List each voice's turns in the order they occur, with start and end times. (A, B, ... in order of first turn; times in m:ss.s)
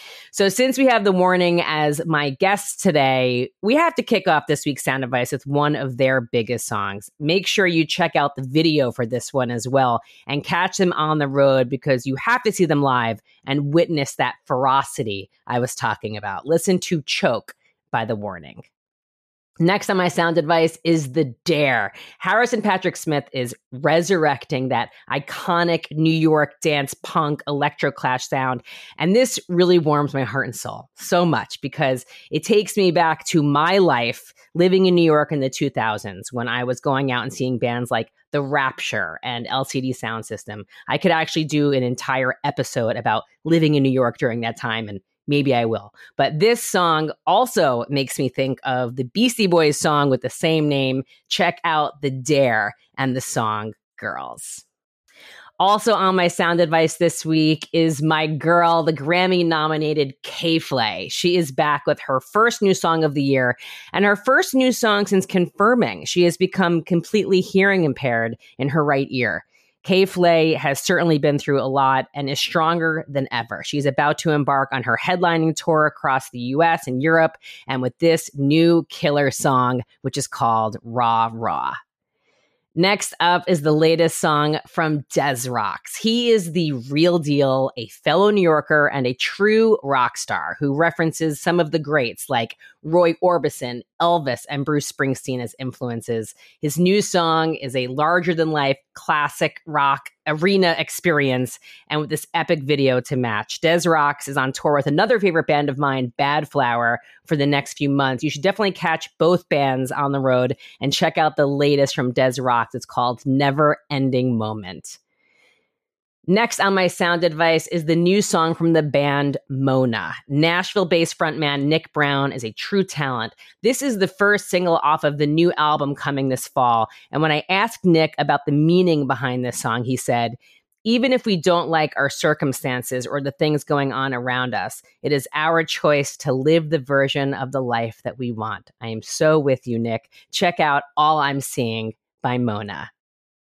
0:00.3-0:18.6 A
0:19.6-0:54.6 A
0:55.6-1:21.8 A
1:22.8-1:55.0 A
1:56.3-2:22.9 A